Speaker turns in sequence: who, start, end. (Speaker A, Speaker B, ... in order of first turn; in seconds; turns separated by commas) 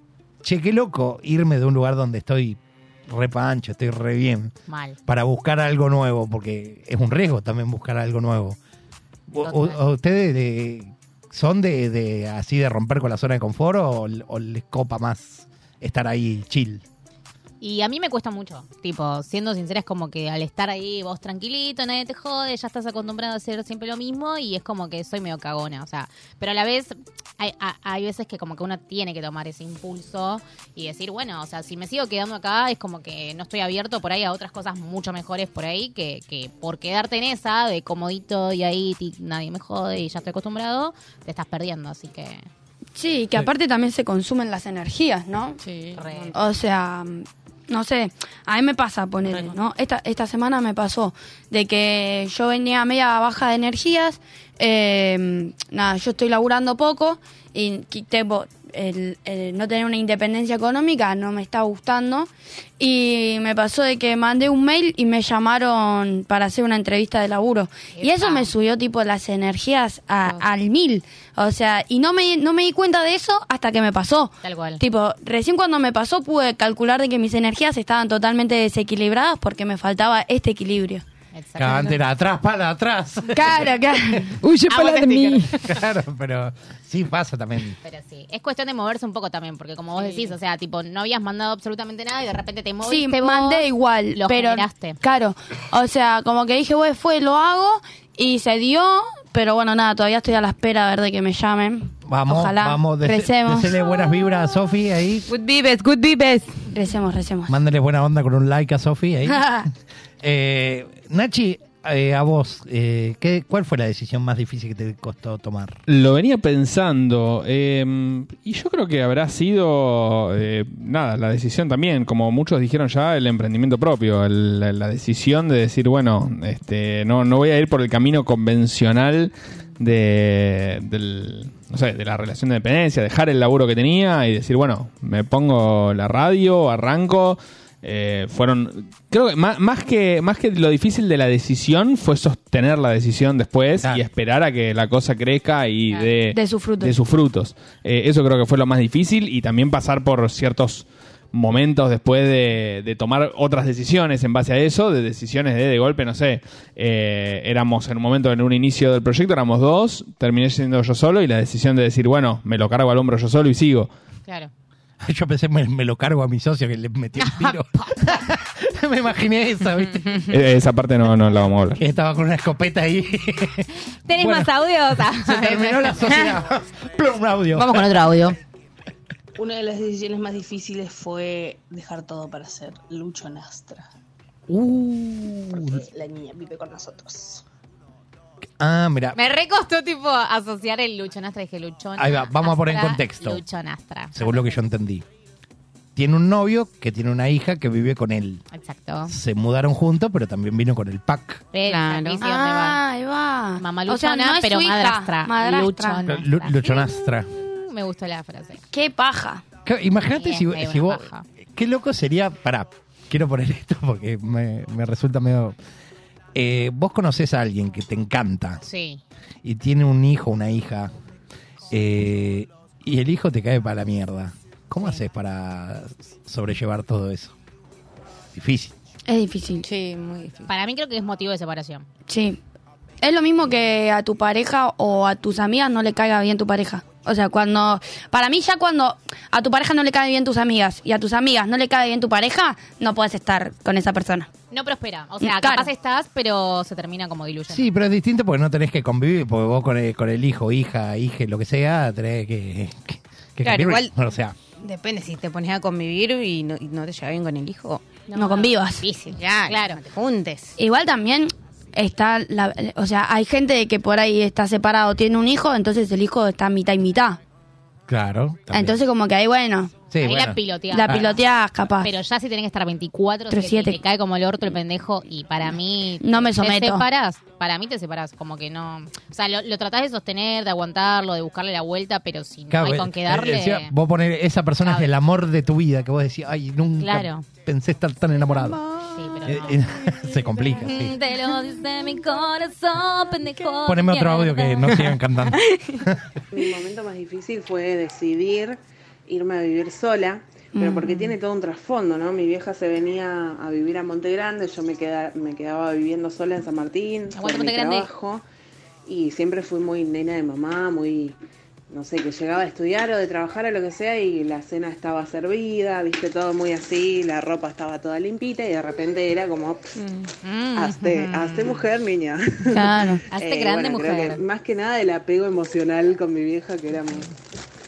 Speaker A: 0.4-4.5, Speaker B: 4.7-5.0, Speaker A: 5.1-8.6, Speaker A: 9.3-16.8, Speaker B: 9.4-9.8, Speaker B: 17.6-42.5, Speaker C: 43.0-45.6, Speaker D: 45.6-46.4, Speaker B: 46.0-46.4, Speaker C: 46.3-81.0, Speaker D: 49.3-49.6, Speaker B: 67.9-68.5, Speaker B: 74.4-74.8, Speaker B: 81.3-82.0, Speaker A: 81.6-83.7, Speaker C: 83.3-84.3, Speaker D: 84.4-85.6, Speaker B: 84.7-85.6, Speaker A: 85.6-87.8, Speaker B: 87.8-95.0, Speaker D: 90.0-90.3, Speaker C: 92.8-103.7, Speaker A: 102.1-105.3, Speaker D: 105.3-106.6, Speaker C: 106.7-107.5, Speaker A: 107.5-109.7, Speaker A: 110.2-115.8, Speaker E: 115.9-163.9, Speaker C: 146.3-146.9, Speaker A: 165.0-170.2, Speaker B: 167.2-168.2, Speaker E: 170.3-171.8, Speaker A: 171.8-178.0, Speaker B: 174.1-176.1, Speaker D: 176.1-176.4, Speaker D: 177.6-178.3, Speaker B: 177.6-178.3, Speaker F: 179.4-183.9, Speaker A: 184.5-185.8, Speaker F: 185.6-187.4, Speaker A: 188.6-189.2, Speaker B: 189.2-194.6, Speaker A: 192.0-193.4, Speaker A: 194.1-195.1, Speaker A: 196.0-198.4, Speaker B: 198.5-199.1, Speaker A: 199.1-201.4, Speaker B: 201.5-202.8, Speaker D: 201.6-202.2, Speaker C: 202.2-206.0, Speaker B: 203.6-208.6, Speaker A: 206.1-207.3, Speaker C: 208.7-209.4, Speaker A: 209.7-215.6, Speaker B: 210.1-211.2, Speaker A: 216.3-218.6, Speaker B: 218.6-219.0, Speaker A: 219.4-220.9, Speaker A: 221.7-227.3, Speaker A: 228.3-228.7, Speaker C: 229.1-229.7, Speaker D: 229.6-230.5, Speaker B: 230.5-231.9, Speaker C: 232.1-232.4, Speaker C: 233.0-244.3, Speaker B: 244.5-247.7, Speaker C: 245.2-245.7, Speaker A: 247.5-254.4, Speaker D: 253.4-253.9, Speaker D: 254.6-258.0, Speaker B: 258.1-259.8, Speaker C: 258.1-258.9, Speaker D: 258.9-260.6, Speaker C: 260.6-267.2, Speaker A: 267.9-268.8, Speaker C: 268.5-269.8, Speaker A: 269.9-271.1, Speaker B: 270.0-271.2, Speaker C: 270.7-271.9, Speaker B: 271.8-283.7, Speaker C: 273.3-273.8, Speaker C: 276.0-276.9, Speaker A: 282.5-288.6, Speaker B: 284.6-284.9, Speaker B: 286.8-287.2, Speaker B: 288.8-289.6, Speaker A: 289.2-290.9, Speaker B: 290.6-294.8, Speaker A: 293.6-296.1, Speaker G: 296.3-308.2, Speaker C: 300.6-301.1, Speaker B: 307.1-307.9, Speaker G: 308.9-311.2, Speaker G: 311.7-319.7, Speaker B: 320.2-321.6, Speaker G: 320.5-327.1, Speaker C: 322.5-323.0, Speaker B: 323.1-324.2